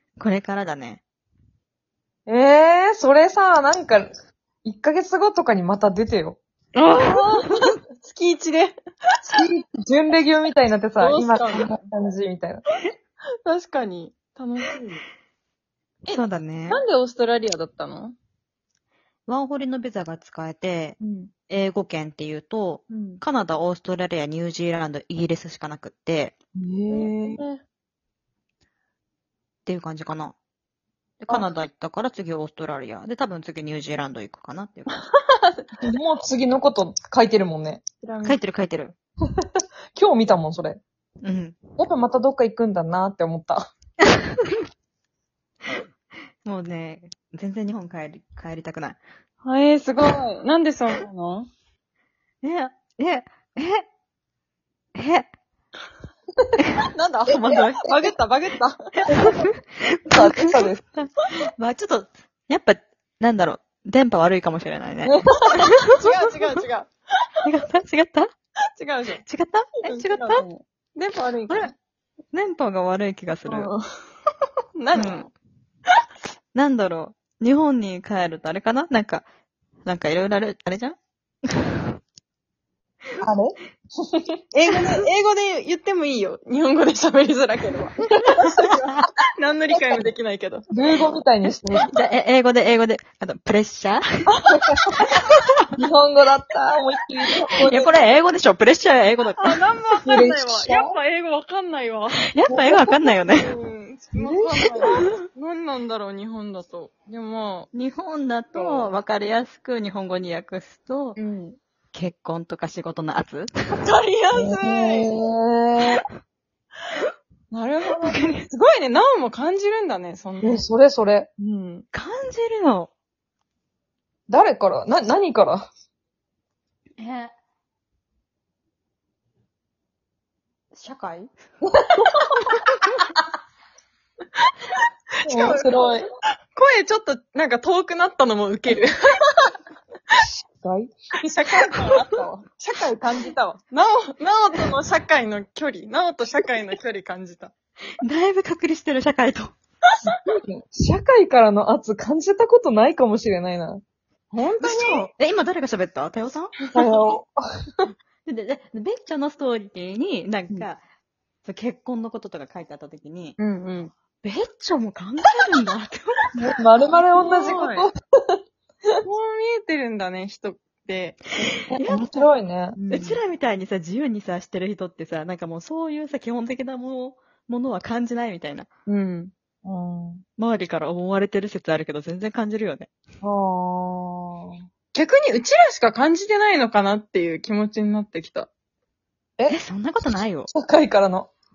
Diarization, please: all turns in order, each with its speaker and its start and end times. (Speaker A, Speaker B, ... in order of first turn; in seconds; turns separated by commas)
Speaker A: 0.2-1.0, Speaker B: 2.3-4.1, Speaker B: 4.6-6.4, Speaker C: 6.8-8.8, Speaker B: 9.3-12.6, Speaker C: 11.0-11.8, Speaker C: 13.5-15.0, Speaker C: 16.1-18.2, Speaker A: 16.1-16.8, Speaker A: 19.3-26.3, Speaker B: 21.0-21.3, Speaker B: 22.9-23.2, Speaker B: 26.6-27.4, Speaker C: 26.9-27.6, Speaker A: 29.7-30.4, Speaker A: 31.2-34.9, Speaker C: 34.9-35.5, Speaker B: 35.8-37.8, Speaker C: 38.0-38.4, Speaker A: 38.2-39.0, Speaker B: 40.0-40.8, Speaker A: 41.2-41.6, Speaker B: 41.8-43.7, Speaker A: 46.4-49.0, Speaker C: 49.4-51.5, Speaker A: 52.4-53.8, Speaker A: 55.0-55.3, Speaker A: 56.6-58.0, Speaker C: 56.9-59.1, Speaker A: 59.0-66.0, Speaker B: 60.1-60.8, Speaker B: 65.0-65.5, Speaker C: 65.9-66.9, Speaker A: 67.4-68.3, Speaker C: 68.8-69.2, Speaker A: 69.2-70.5, Speaker C: 69.8-71.7, Speaker A: 72.3-73.7, Speaker C: 73.5-73.8, Speaker C: 74.8-75.3, Speaker A: 74.9-75.3, Speaker A: 76.5-79.3, Speaker A: 79.9-81.8, Speaker B: 83.2-83.6, Speaker C: 84.5-90.7, Speaker A: 88.5-89.0, Speaker B: 90.7-91.9, Speaker A: 91.7-94.3, Speaker B: 94.5-94.9, Speaker B: 95.8-98.0, Speaker A: 97.6-99.7, Speaker C: 99.4-102.2, Speaker B: 100.0-101.0, Speaker A: 102.2-103.5, Speaker B: 102.5-102.9, Speaker C: 103.2-107.7, Speaker B: 104.2-105.1, Speaker A: 107.7-111.2, Speaker C: 108.5-108.9, Speaker C: 111.2-111.6, Speaker A: 111.9-113.5, Speaker C: 113.8-115.1, Speaker B: 114.3-116.0, Speaker C: 117.5-120.6, Speaker A: 118.0-118.5, Speaker B: 120.4-121.3, Speaker C: 121.4-121.8, Speaker A: 121.9-122.9, Speaker B: 124.3-125.7, Speaker A: 127.0-127.3, Speaker A: 130.7-131.3, Speaker C: 135.2-135.9, Speaker B: 135.2-136.0, Speaker C: 136.5-139.5, Speaker B: 140.2-140.9, Speaker C: 141.2-147.5, Speaker A: 148.0-149.5, Speaker B: 150.1-153.8, Speaker C: 154.3-155.1, Speaker A: 154.6-156.7, Speaker B: 156.7-157.9, Speaker A: 158.2-160.8, Speaker A: 161.4-163.4, Speaker C: 163.4-163.9, Speaker A: 164.2-166.3, Speaker B: 166.3-168.4, Speaker C: 167.2-167.9, Speaker C: 169.0-171.5, Speaker A: 171.7-172.3, Speaker B: 171.7-172.8, Speaker C: 172.8-173.2, Speaker A: 172.9-178.7, Speaker C: 178.9-179.3, Speaker B: 179.6-180.2, Speaker A: 180.4-182.9, Speaker B: 183.2-184.6, Speaker C: 184.9-188.5, Speaker A: 189.5-190.5, Speaker B: 190.5-191.3